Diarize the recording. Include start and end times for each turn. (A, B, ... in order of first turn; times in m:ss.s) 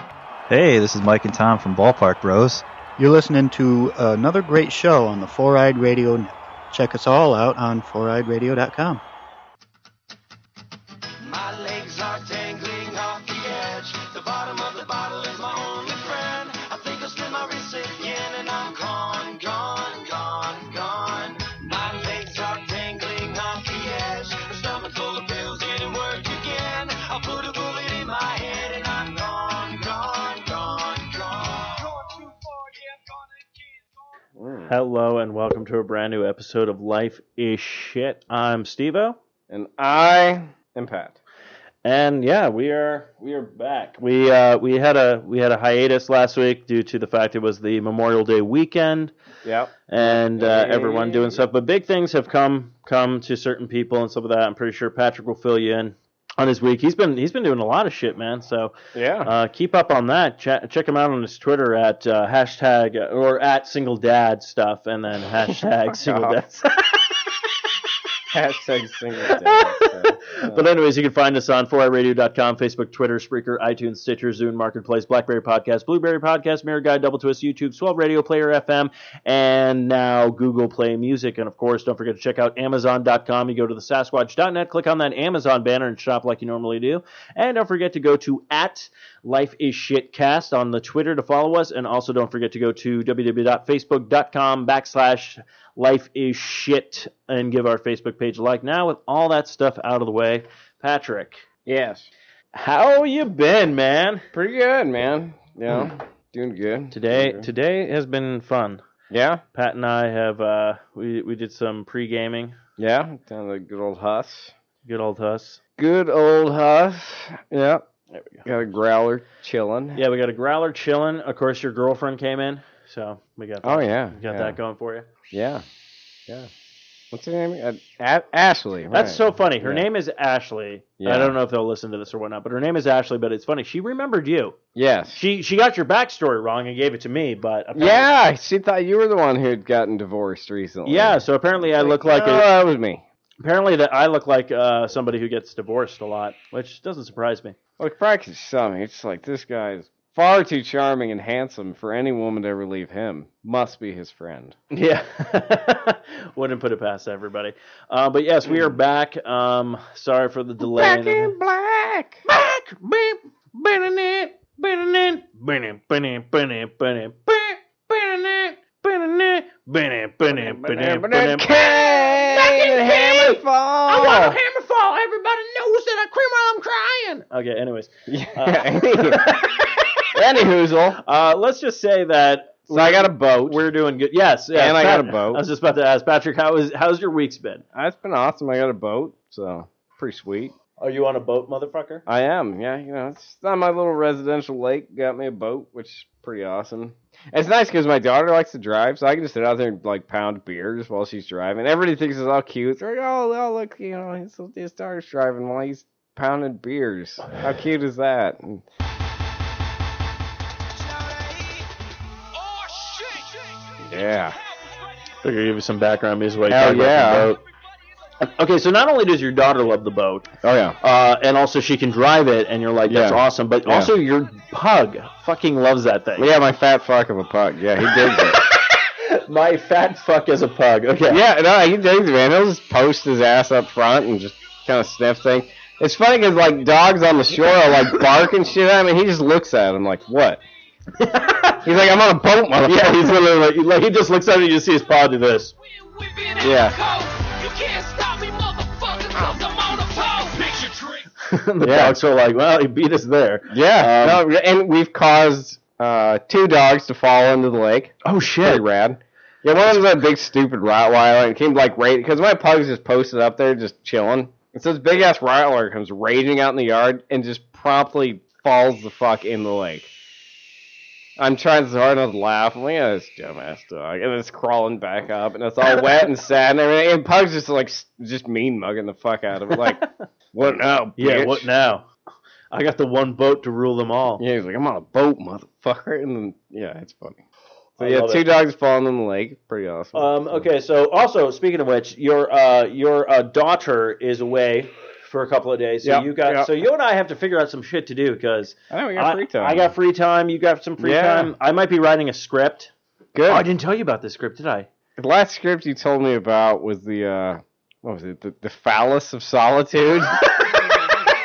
0:00.5-0:02.6 A
0:03.0-0:09.0 B
0:11.2-0:33.0 C
0:34.4-0:34.7 D
0:34.7-0:39.2 E
0:39.5-0:41.2 D
0:41.8-0:49.1 E
0:49.4-0:51.4 D
0:49.9-1:07.0 E
0:58.9-0:59.3 D
1:05.9-1:06.4 D
1:08.3-1:10.6 D
1:09.3-1:41.4 E
1:41.6-1:42.1 D
1:42.5-1:44.2 E
1:44.3-1:47.5 D
1:46.9-1:48.8 E
1:49.1-1:49.4 D
1:49.5-1:52.6 E
1:52.8-1:54.5 D
1:54.8-1:55.6 E
1:55.8-1:57.8 D
1:58.1-1:58.4 E
1:58.4-2:00.0 D
1:59.9-2:05.1 E
2:03.6-2:04.6 D
2:05.3-2:05.6 D
2:07.1-2:09.8 D
2:08.9-2:14.6 E
2:11.0-2:11.3 D
2:14.7-2:15.2 D
2:15.1-2:18.1 E
2:17.7-2:23.0 D
2:20.8-2:22.4 E
2:23.4-2:27.6 E
2:27.8-2:34.6 D
2:34.7-2:41.3 E
2:40.6-2:42.2 D
2:42.2-3:00.0 E
2:50.3-2:54.4 D
2:58.1-2:59.4 D
3:00.1-3:01.0 D
3:00.9-3:07.6 E
3:02.7-3:03.6 D
3:04.5-3:05.4 D
3:07.7-3:10.5 D
3:10.8-3:12.0 E
3:12.0-3:28.6 D
3:30.8-3:31.6 C
3:32.4-3:34.8 C
3:33.8-3:34.4 D
3:35.2-3:37.4 E
3:36.5-3:37.3 D
3:38.2-3:40.3 E
3:40.4-3:40.8 D
3:40.8-3:46.3 E
3:42.9-3:43.9 D
3:46.2-3:48.4 D
3:47.8-3:51.2 E
3:51.1-4:00.4 D
4:01.0-4:01.6 E
4:01.6-4:03.1 D
4:02.6-4:05.5 E
4:05.7-4:11.1 C
4:06.4-4:06.8 D
4:11.2-4:14.2 E
4:11.6-4:12.0 D
4:13.5-4:29.9 D
4:18.0-4:18.6 E
4:31.2-4:41.5 D
4:41.0-4:41.9 E
4:42.5-4:44.2 E
4:44.2-4:47.2 D
4:47.8-4:48.2 E
4:47.8-4:50.4 D
4:49.9-5:02.7 E
4:55.8-4:56.5 D
4:58.7-4:59.7 D
5:00.8-5:01.3 D
5:03.1-5:03.4 D
5:03.3-5:04.7 E
5:05.0-5:10.5 D